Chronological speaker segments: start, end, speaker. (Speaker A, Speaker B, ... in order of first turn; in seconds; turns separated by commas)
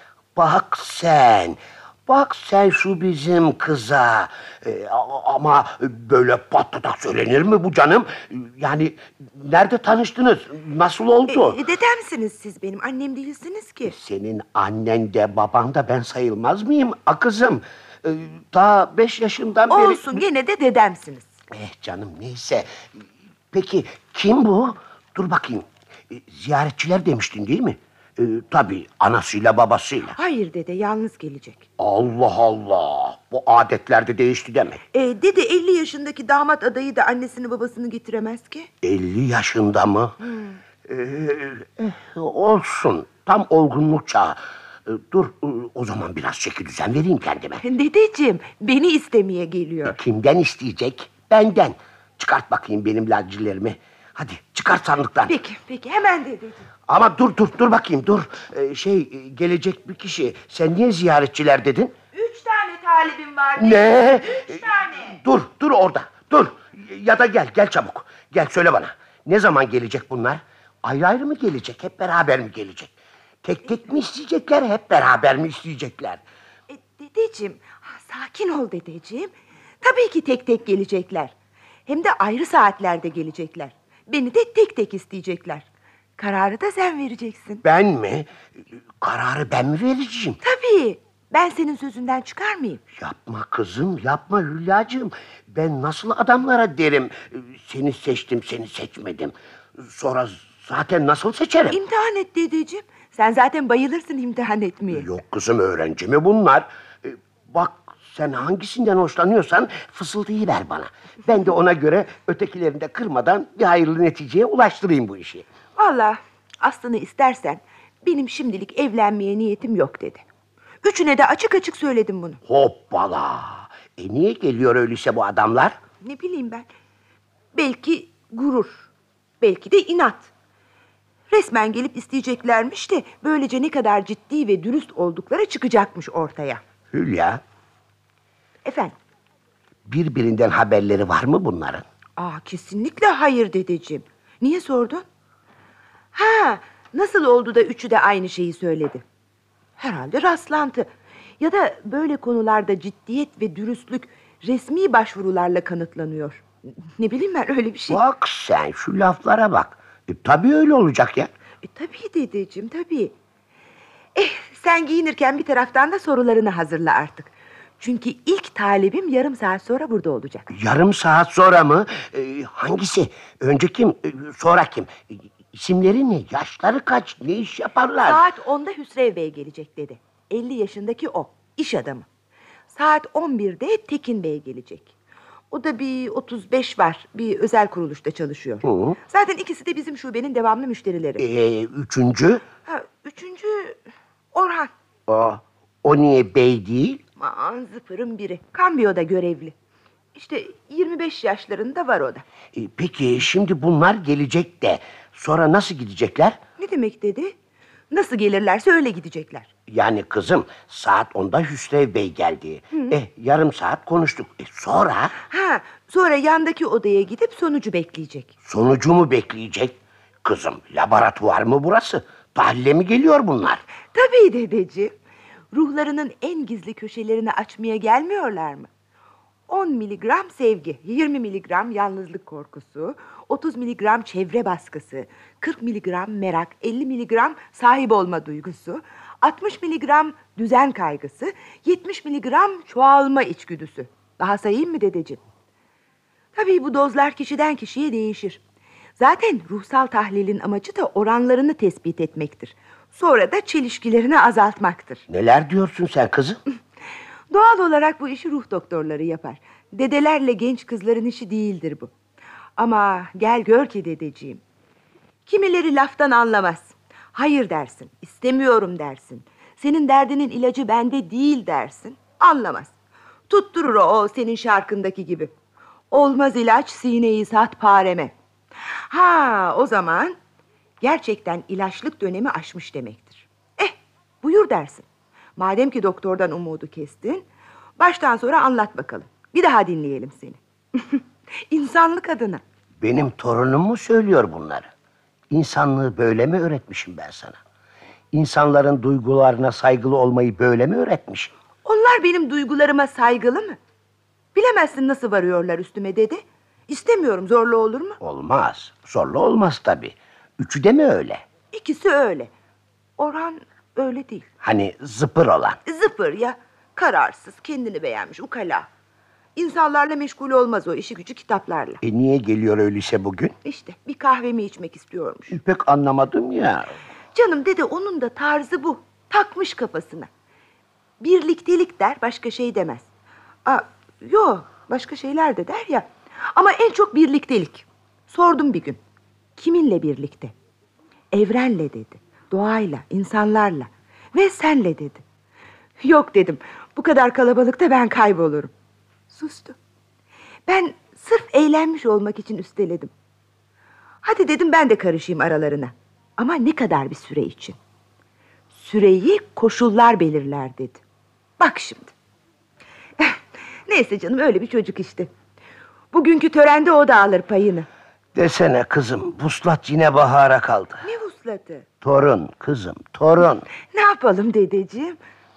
Speaker A: 0.4-11.6, Speaker B: 11.3-13.9, Speaker A: 13.8-20.2, Speaker B: 19.7-21.3, Speaker A: 21.5-30.2, Speaker B: 30.1-31.7, Speaker A: 31.8-34.8, Speaker B: 34.9-38.7, Speaker A: 38.8-40.2, Speaker B: 40.2-40.6, Speaker A: 40.9-47.6, Speaker B: 47.6-50.0, Speaker A: 49.9-55.3, Speaker B: 55.3-56.7, Speaker A: 56.9-62.0, Speaker B: 62.1-65.2, Speaker A: 63.6-76.2, Speaker B: 76.7-81.3, Speaker B: 81.9-85.7, Speaker B: 86.2-87.6, Speaker A: 87.6-90.4, Speaker B: 90.4-92.8, Speaker A: 92.9-101.8, Speaker B: 101.7-105.1, Speaker A: 104.9-115.5, Speaker B: 115.8-120.2, Speaker B: 120.8-122.4, Speaker A: 122.5-125.8, Speaker B: 126.0-126.7, Speaker B: 127.5-128.9, Speaker B: 129.4-130.3, Speaker B: 131.3-136.6, Speaker A: 136.9-137.4, Speaker B: 138.6-138.9, Speaker A: 139.9-141.8, Speaker B: 142.2-145.1, Speaker B: 146.2-149.0, Speaker B: 149.8-156.4, Speaker B: 157.0-158.0, Speaker A: 157.9-161.3, Speaker B: 161.7-163.1, Speaker B: 164.2-170.5, Speaker A: 170.5-178.3, Speaker B: 178.1-182.1, Speaker B: 182.7-184.9, Speaker B: 185.5-191.2, Speaker A: 188.6-189.0, Speaker A: 191.2-192.4, Speaker B: 192.7-193.8, Speaker B: 194.3-194.7, Speaker A: 195.1-197.0, Speaker B: 197.2-199.5, Speaker B: 200.2-202.2, Speaker A: 202.5-206.4, Speaker B: 206.6-207.3, Speaker B: 207.9-209.5, Speaker A: 209.7-215.2, Speaker B: 215.3-218.3, Speaker A: 218.5-223.6, Speaker B: 223.9-224.9, Speaker B: 225.5-228.7, Speaker B: 229.5-245.2, Speaker B: 246.3-248.4, Speaker B: 249.0-255.1, Speaker A: 255.1-256.4, Speaker B: 257.3-261.9, Speaker B: 262.6-264.4, Speaker B: 265.3-272.7, Speaker B: 273.3-275.3, Speaker B: 275.9-278.1, Speaker B: 278.9-280.2, Speaker B: 280.8-284.9, Speaker B: 285.4-287.3, Speaker B: 287.8-292.4, Speaker A: 292.8-294.7, Speaker A: 295.3-297.4, Speaker A: 298.1-301.3, Speaker B: 301.6-303.6, Speaker B: 304.4-308.0, Speaker A: 308.0-311.2, Speaker B: 311.5-312.3, Speaker B: 313.0-314.3, Speaker A: 314.4-315.6, Speaker B: 315.7-318.7, Speaker B: 319.4-321.8, Speaker A: 321.8-323.4, Speaker B: 323.4-325.4, Speaker A: 325.3-326.8, Speaker B: 327.1-330.1, Speaker B: 331.0-332.9, Speaker B: 333.5-338.8, Speaker B: 339.4-340.3, Speaker B: 341.1-345.0, Speaker B: 345.8-348.5, Speaker B: 349.1-349.6, Speaker B: 350.5-352.9, Speaker B: 354.0-357.6, Speaker B: 358.5-360.8, Speaker B: 361.4-361.9, Speaker B: 363.0-365.1, Speaker B: 365.9-367.7, Speaker A: 368.1-370.9, Speaker B: 370.8-371.7, Speaker A: 371.8-373.5, Speaker B: 373.7-375.0